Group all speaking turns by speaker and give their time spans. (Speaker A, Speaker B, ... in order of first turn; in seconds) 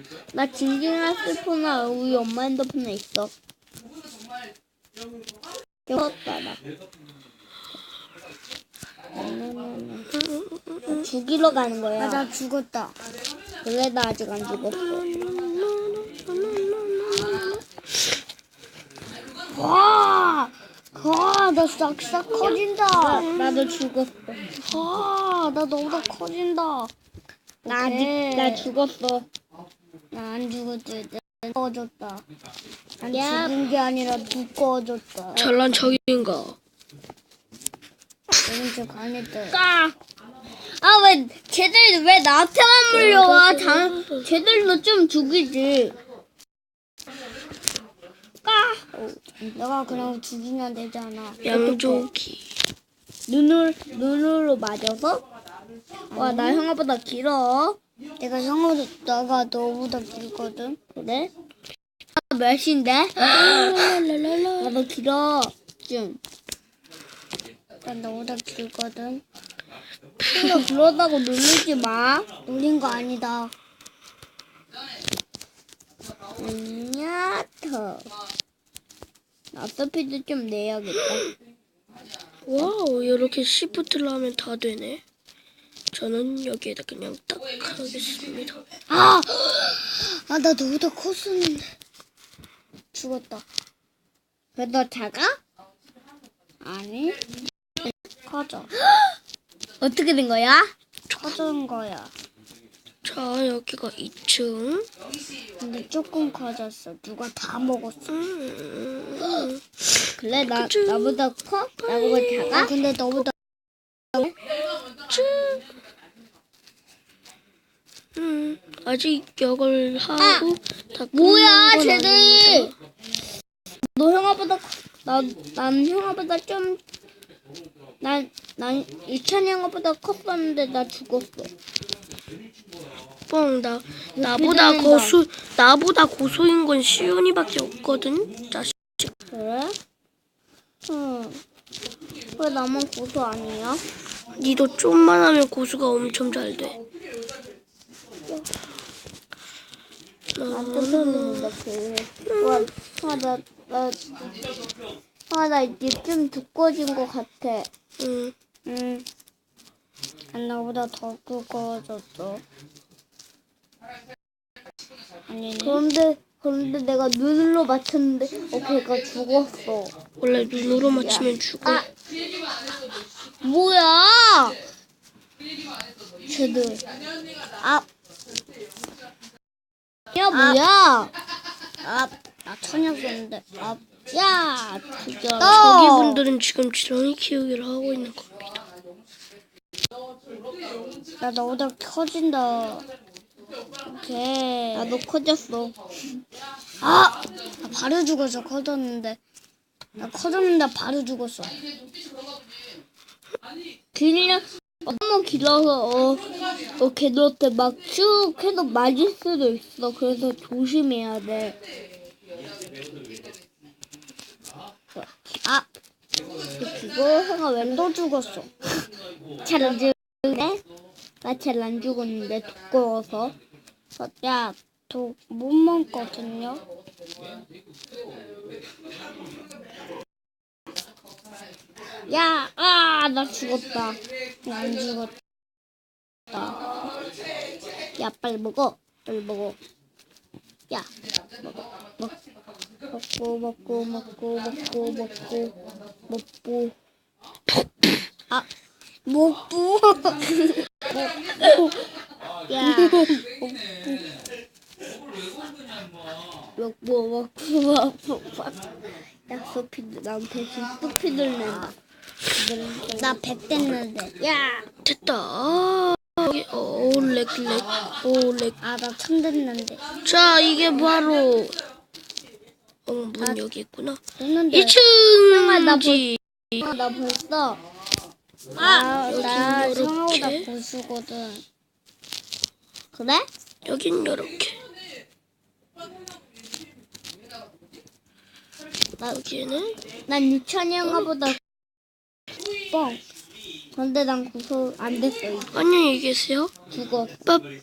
Speaker A: 0.3-3.3, 5.9-6.6, 9.1-10.1, 10.9-12.3, 13.6-15.0, 19.5-20.4, 22.9-24.6, 27.6-29.2, 33.1-33.6, 39.5-39.9, 40.8-46.0, 48.4-49.4, 51.5-52.1, 53.3-55.2, 56.1-57.8, 60.9-61.3, 62.1-64.0, 64.6-66.2, 70.2-72.3, 76.4-78.1, 79.5-81.2, 88.9-89.9, 94.5-95.4, 98.8-99.1, 99.8-100.7, 110.2-112.7, 120.2-120.5, 121.1-122.7, 124.0-126.8, 128.0-131.5, 134.2-135.2, 139.3-139.8, 140.9-141.3, 142.4-143.8, 150.5-154.1, 155.3-157.7, 165.6-169.9, 170.9-171.9, 173.4-174.6, 176.3-176.8, 180.1-181.1, 184.1-186.2, 194.7-195.7, 196.8-197.1, 203.9-211.6, 215.0-215.6, 216.6-217.8, 219.4-220.6, 221.2-223.3, 223.9-224.6, 232.1-234.0, 238.0-239.6, 242.9-245.5, 246.1-246.7, 250.2-251.3, 252.5-253.2, 256.5-258.6, 259.3-261.7, 262.4-263.2, 275.3-276.0, 276.6-277.6, 278.6-279.8, 282.9-283.3, 290.1-291.4, 293.7-295.5, 296.7-297.1
Speaker B: 10.1-11.1, 14.6-17.6, 22.3-23.8, 24.6-25.2, 35.3-36.6, 42.9-44.4, 51.4-52.4, 63.3-64.8, 82.5-85.0, 85.9-88.6, 101.1-101.4, 103.0-104.9, 108.1-113.2, 114.9-115.6, 118.1-122.7, 133.3-139.1, 144.4-146.8, 150.3-151.5, 152.2-152.7, 158.0-158.3, 170.2-171.8, 185.4-188.5, 264.8-268.6, 270.0-271.5, 272.9-274.0, 274.5-276.6, 278.6-280.5, 283.6-284.6, 289.0-289.8, 290.8-291.1, 295.5-296.5
Speaker C: 12.0-12.9, 19.9-23.3, 25.3-26.9, 27.6-28.7, 30.1-32.2, 33.0-35.5, 38.4-39.6, 49.4-52.0, 56.1-56.7, 58.2-60.8, 67.8-69.2, 72.4-73.5, 88.9-89.2, 89.9-91.7, 92.9-93.4, 96.6-97.2, 98.2-98.7, 101.2-102.1, 105.6-108.1, 112.5-113.3, 158.7-159.1, 160.3-162.4, 165.3-165.8, 180.3-180.6, 181.8-183.8, 185.4-186.2, 191.2-192.8, 193.9-194.9, 196.8-199.2, 200.0-201.5, 217.6-218.5, 224.9-226.6, 234.4-235.1, 249.1-250.2, 252.6-253.3, 262.9-264.6, 268.6-269.8, 274.2-274.8, 278.6-281.4, 292.7-293.0